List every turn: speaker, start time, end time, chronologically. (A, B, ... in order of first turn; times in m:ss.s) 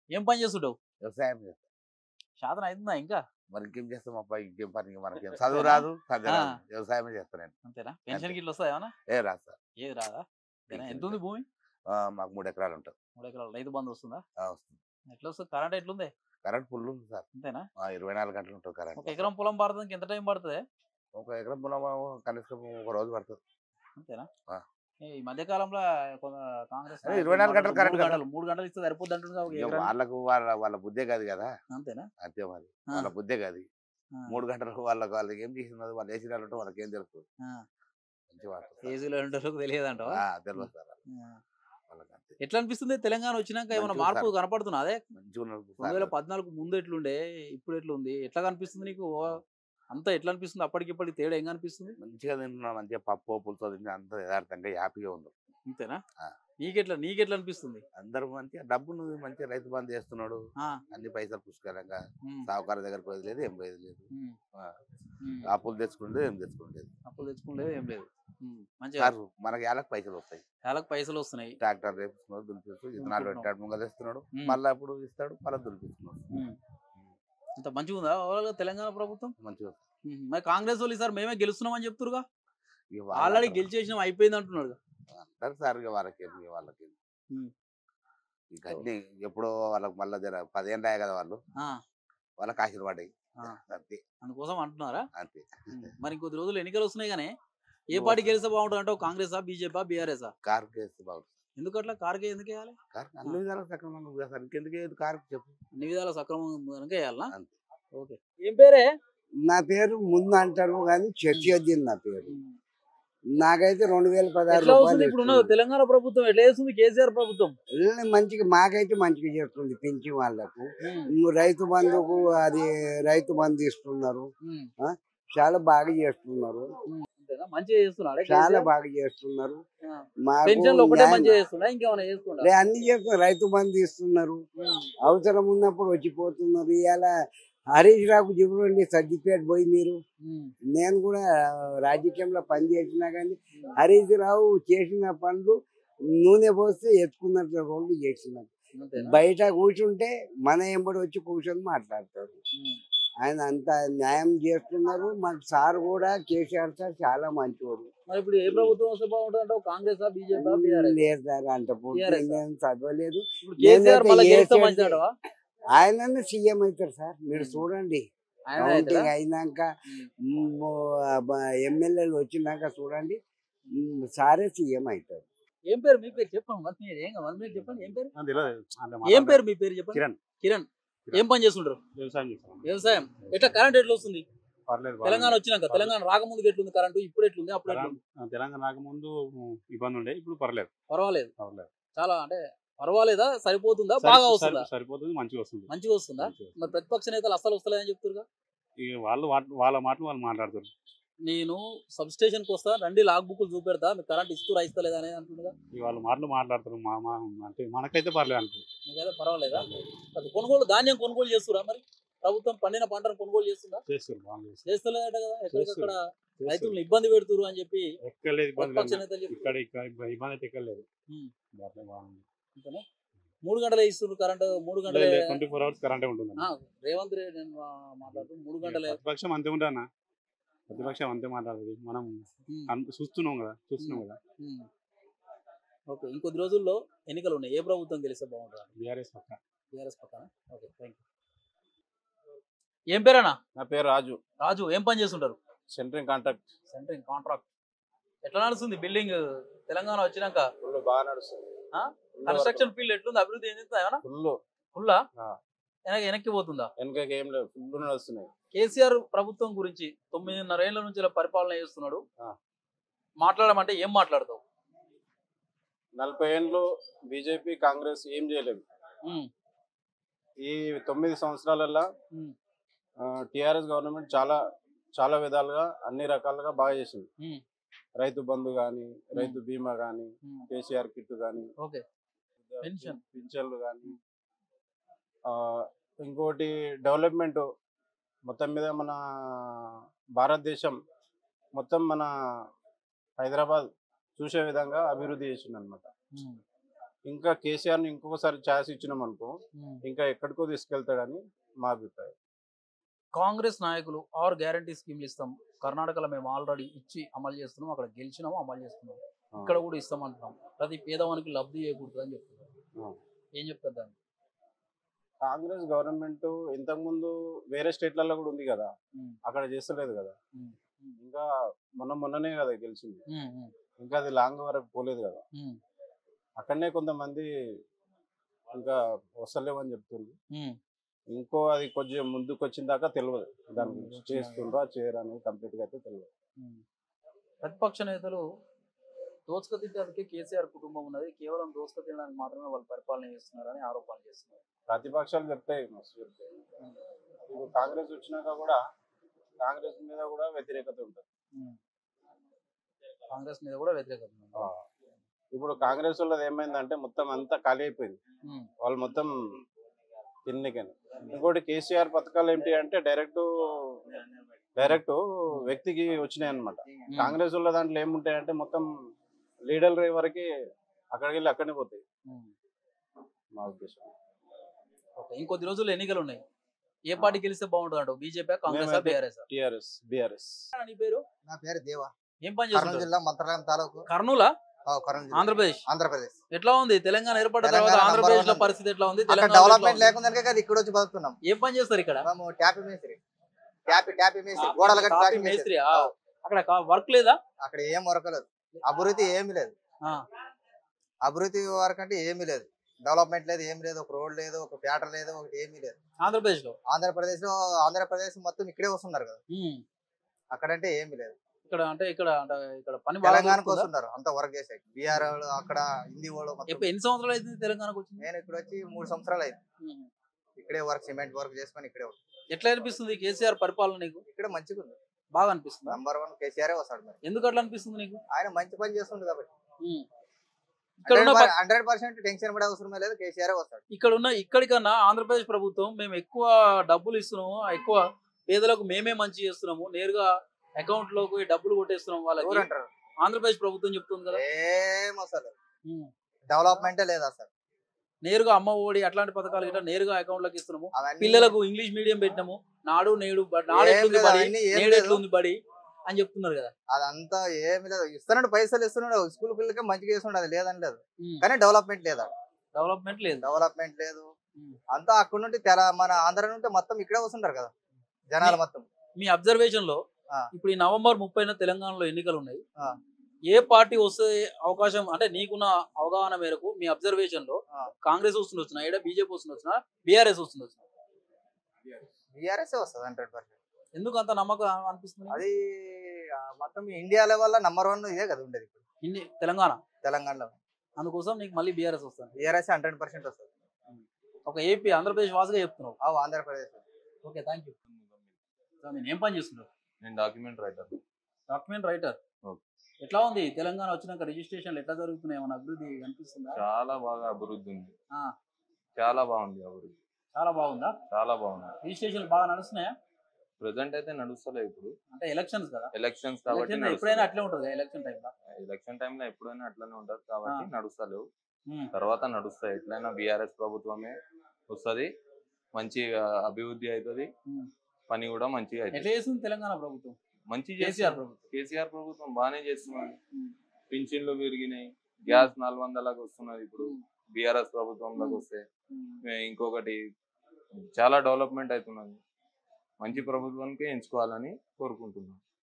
0:00.1-0:00.8 A
0:01.0-0:01.6 B
0:02.4-0:03.2 A
0:03.5-0:07.5 B
0:05.4-0:06.6 A
0:07.7-0:08.9 A
0:08.1-0:08.4 B
0:09.1-0:09.6 B
0:09.8-0:11.5 A
0:10.7-0:11.2 B
0:11.9-0:12.9 B
0:13.2-0:14.2 A
0:14.4-0:14.8 B
0:15.1-0:16.1 A
0:16.4-0:17.2 B
0:17.4-0:17.7 A
0:17.8-0:19.3 B
0:19.0-0:20.6 A
0:21.2-0:23.4 B
0:24.0-0:24.3 A
0:25.0-0:30.0 A
0:27.2-0:28.2 B
0:29.5-0:31.5 B
0:31.7-0:32.1 A
0:32.2-0:33.7 B
0:34.1-0:34.4 A
0:34.3-0:37.2 B
0:38.3-0:38.9 B
0:38.8-0:41.4 A
0:40.0-0:41.0 B
0:41.9-0:42.3 B
0:42.4-0:45.0 A
0:43.8-0:44.3 B
0:45.2-0:46.1 B
0:45.8-0:49.4 A
0:49.9-0:52.0 A
0:52.0-0:55.3 B
0:55.7-0:56.0 A
0:56.6-0:57.8 A
0:58.0-1:00.4 B
1:00.9-1:04.1 B
1:04.1-1:04.4 A
1:05.2-1:05.5 A
1:05.6-1:06.9 B
1:07.1-1:09.1 A
1:09.0-1:10.4 B
1:10.6-1:11.6 A
1:11.6-1:16.2 B
1:13.0-1:13.5 A
1:14.3-1:14.6 A
1:16.3-1:16.6 A
1:17.6-1:19.3 A
1:19.4-1:19.8 B
1:20.1-1:22.2 A
1:22.9-1:23.7 B
1:23.1-1:24.8 A
1:25.1-1:27.0 B
1:28.5-1:31.4 B
1:32.4-1:33.1 B
1:33.7-1:34.0 B
1:34.2-1:35.1 A
1:35.2-1:35.9 B
1:35.7-1:37.3 A
1:37.9-1:40.3 A
1:37.9-1:38.3 B
1:40.4-1:41.3 B
1:41.6-1:43.4 A
1:42.9-1:45.6 B
1:45.8-1:47.3 A
1:47.9-1:48.9 A
1:49.5-1:52.3 C
1:52.3-1:52.6 A
1:53.4-1:55.6 C
1:54.5-1:57.6 A
1:57.8-2:04.3 C
2:00.8-2:01.1 A
2:04.4-2:04.7 A
2:04.8-2:06.7 C
2:06.9-2:08.7 A
2:08.2-2:09.6 C
2:09.8-2:12.5 A
2:10.3-2:11.4 C
2:12.4-2:14.4 C
2:14.6-2:14.9 A
2:15.0-2:17.1 C
2:17.7-2:20.0 C
2:20.2-2:20.5 A
2:20.7-2:21.2 C
2:21.8-2:25.6 C
2:26.2-2:32.4 C
2:28.8-2:29.2 A
2:32.6-2:32.8 A
2:33.2-2:37.9 C
2:38.1-2:41.0 A
2:40.4-2:45.0 C
2:41.9-2:42.4 A
2:43.4-2:45.1 A
2:45.7-2:48.0 C
2:47.3-2:47.7 A
2:48.5-2:49.1 A
2:48.6-2:49.7 C
2:50.2-2:53.2 C
2:53.7-2:55.2 C
2:55.7-2:58.1 A
2:58.2-3:00.2 D
2:59.0-3:01.8 A
3:02.0-3:02.7 D
3:02.6-3:04.3 A
3:03.3-3:03.6 D
3:04.7-3:05.9 D
3:05.0-3:08.0 A
3:07.7-3:10.7 D
3:10.9-3:11.3 A
3:11.4-3:11.7 D
3:12.0-3:14.7 A
3:14.0-3:16.7 D
3:15.7-3:18.3 A
3:18.8-3:20.7 D
3:21.2-3:25.5 A
3:25.7-3:28.6 D
3:28.9-3:33.8 A
3:29.5-3:29.9 D
3:33.9-3:34.8 D
3:34.6-3:37.9 A
3:35.5-3:36.8 D
3:38.0-3:40.9 D
3:38.6-3:39.4 A
3:41.6-3:42.2 D
3:42.6-3:42.8 A
3:43.4-3:45.4 A
3:44.9-3:46.5 D
3:46.4-3:49.0 A
3:48.1-3:49.9 D
3:50.7-3:54.2 D
3:53.8-3:54.7 A
3:55.9-3:58.7 A
3:58.8-3:59.4 D
3:59.7-4:01.0 A
4:02.9-4:03.4 A
4:03.6-4:04.2 E
4:04.4-4:05.4 A
4:05.7-4:06.4 E
4:06.7-4:07.4 A
4:08.2-4:10.5 A
4:10.6-4:11.4 E
4:11.7-4:14.0 A
4:12.2-4:12.6 E
4:14.1-4:14.4 E
4:14.8-4:15.0 A
4:15.9-4:16.7 A
4:16.8-4:18.3 E
4:18.5-4:22.0 A
4:23.2-4:24.4 A
4:26.0-4:28.6 E
4:30.5-4:31.9 E
4:33.3-4:34.4 E
4:35.0-4:37.1 E
4:38.0-4:41.5 E
4:42.6-4:43.0 A
4:42.7-4:43.9 E
4:42.9-4:43.2 D
4:45.4-4:47.4 E
4:48.3-4:49.0 E
4:50.2-4:50.8 E
4:51.6-4:52.1 E
4:53.2-4:55.9 E
4:56.2-4:56.4 A
4:57.1-4:59.3 E
4:59.9-5:02.1 E
5:03.2-5:12.5 A
5:13.4-5:13.9 A
5:15.2-5:18.7 E
5:19.3-5:20.2 E
5:20.4-5:21.0 A
5:21.0-5:21.3 E
5:21.8-5:23.0 E
5:23.1-5:23.5 A
5:23.8-5:25.2 E
5:26.4-5:27.3 E
5:28.5-5:30.1 E
5:30.3-5:30.6 A
5:31.1-5:36.1 E
5:33.6-5:33.8 D
5:33.6-5:34.5 A
5:37.4-5:38.2 A
5:39.3-5:44.4 A
5:44.7-5:46.3 E
5:47.3-5:48.6 E
5:49.4-5:51.0 E
5:53.1-5:54.5 A
5:55.3-5:58.0 E
5:58.6-5:59.1 E
6:00.3-6:03.3 E
6:04.7-6:08.7 E
6:06.9-6:07.2 A
6:09.5-6:10.3 E
6:10.9-6:11.8 E
6:12.1-6:12.3 A
6:13.4-6:13.9 E
6:15.0-6:16.2 A
6:16.9-6:19.2 A
6:18.5-6:20.4 E
6:20.6-6:21.0 A
6:21.3-6:21.9 F
6:22.2-6:22.9 A
6:22.5-6:23.8 F
6:23.9-6:24.3 A
6:24.7-6:26.2 F
6:25.1-6:25.6 A
6:26.3-6:29.9 A
6:27.4-6:28.5 F
6:29.1-6:31.2 F
6:31.2-6:32.1 A
6:32.0-6:33.0 F
6:33.7-6:35.9 F
6:34.4-6:37.2 A
6:37.4-6:39.6 F
6:41.0-6:45.8 F
6:46.0-6:46.6 A
6:46.7-6:49.2 F
6:49.3-6:49.6 A
6:50.3-6:51.2 F
6:51.5-6:53.7 A
6:53.0-6:56.7 F
6:56.5-6:58.0 A
6:58.0-6:59.4 F
6:59.6-6:59.9 A
7:00.4-7:02.0 F
7:02.3-7:04.0 A
7:04.1-7:04.8 F
7:05.2-7:05.8 A
7:05.7-7:07.0 F
7:07.0-7:08.0 A
7:08.1-7:09.3 F
7:10.9-7:13.6 F
7:10.9-7:11.3 A
7:13.7-7:22.5 A
7:22.2-7:22.7 F
7:23.0-7:24.2 A
7:24.1-7:25.3 F
7:26.3-7:27.3 F
7:28.0-7:36.5 A
7:30.8-7:31.4 F
7:33.5-7:35.0 F
7:36.7-7:42.1 F
7:42.6-7:43.3 A
7:43.2-7:44.1 F
7:44.7-7:47.5 F
7:48.1-7:48.7 F
7:49.0-7:49.8 A
7:50.3-7:52.4 A
7:53.3-8:00.6 A
8:02.1-8:03.3 F
8:03.8-8:05.2 A
8:05.1-8:08.6 F
8:08.8-8:09.6 A
8:09.8-8:10.4 F
8:10.8-8:12.2 A
8:12.2-8:13.3 F
8:13.7-8:15.8 A
8:15.8-8:16.6 F
8:17.0-8:17.6 A
8:17.7-8:18.2 G
8:18.6-8:19.5 A
8:19.8-8:20.8 G
8:21.3-8:22.0 A
8:22.8-8:26.4 A
8:26.4-8:27.7 G
8:28.8-8:29.7 G
8:30.2-8:30.8 A
8:30.9-8:31.6 G
8:31.6-8:32.7 A
8:33.4-8:34.7 G
8:34.9-8:35.7 A
8:35.8-8:37.1 G
8:36.3-8:38.1 A
8:38.4-8:41.1 G
8:41.7-8:44.0 G
8:44.5-8:44.9 G
8:45.6-8:47.1 G
8:47.9-8:48.9 G
8:48.7-8:50.0 A
8:50.3-8:53.0 G
8:50.6-8:51.2 A
8:53.7-8:58.4 G
8:55.1-8:55.3 A
8:58.0-8:59.0 A
8:59.1-8:59.8 G
9:00.6-9:02.0 G
9:02.8-9:05.2 G